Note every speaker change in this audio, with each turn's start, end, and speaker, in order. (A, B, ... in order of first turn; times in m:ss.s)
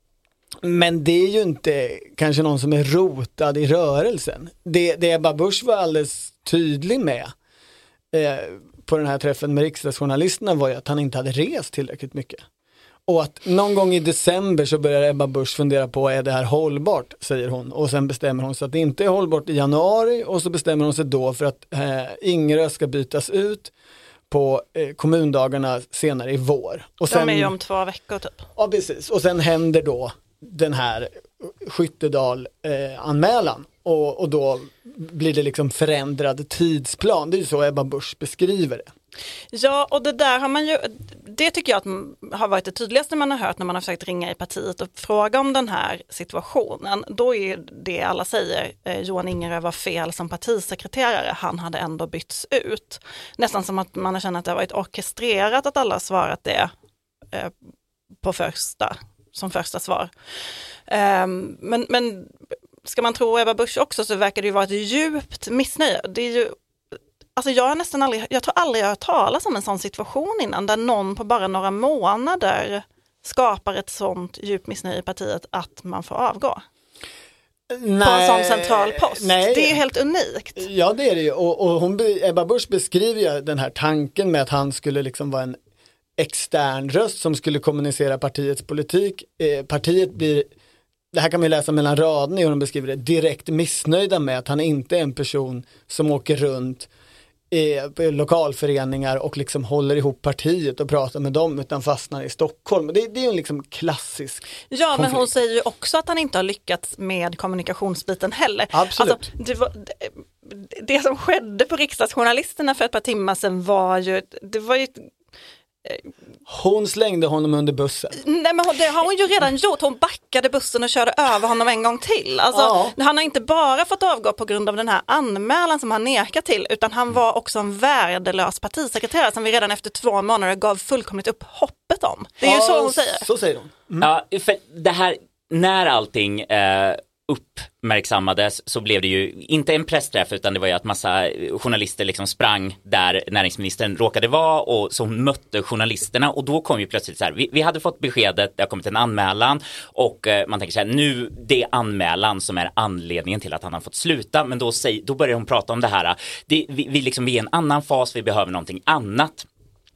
0:00.6-0:07.3 A
0:08.1-0:12.4 A
0:13.1-0:23.7 A
0:24.3-0:27.5 A
0:27.1-0:28.4 B
0:28.6-0:38.9 A
0:39.5-0:56.7 B
0:58.2-1:00.1 B
1:00.9-1:02.3 B
1:02.8-1:06.6 B
1:07.4-1:16.6 B
1:17.7-1:19.8 A
1:18.0-1:20.6 B
1:20.6-1:25.6 A
1:26.2-1:30.5 A
1:31.1-1:36.9 A
1:37.5-1:45.3 A
1:44.7-1:55.0 B
1:48.7-1:49.3 A
1:56.5-1:58.2 A
1:58.2-2:13.2 B
2:02.5-2:02.9 A
2:12.4-2:14.1 A
2:14.0-2:39.4 C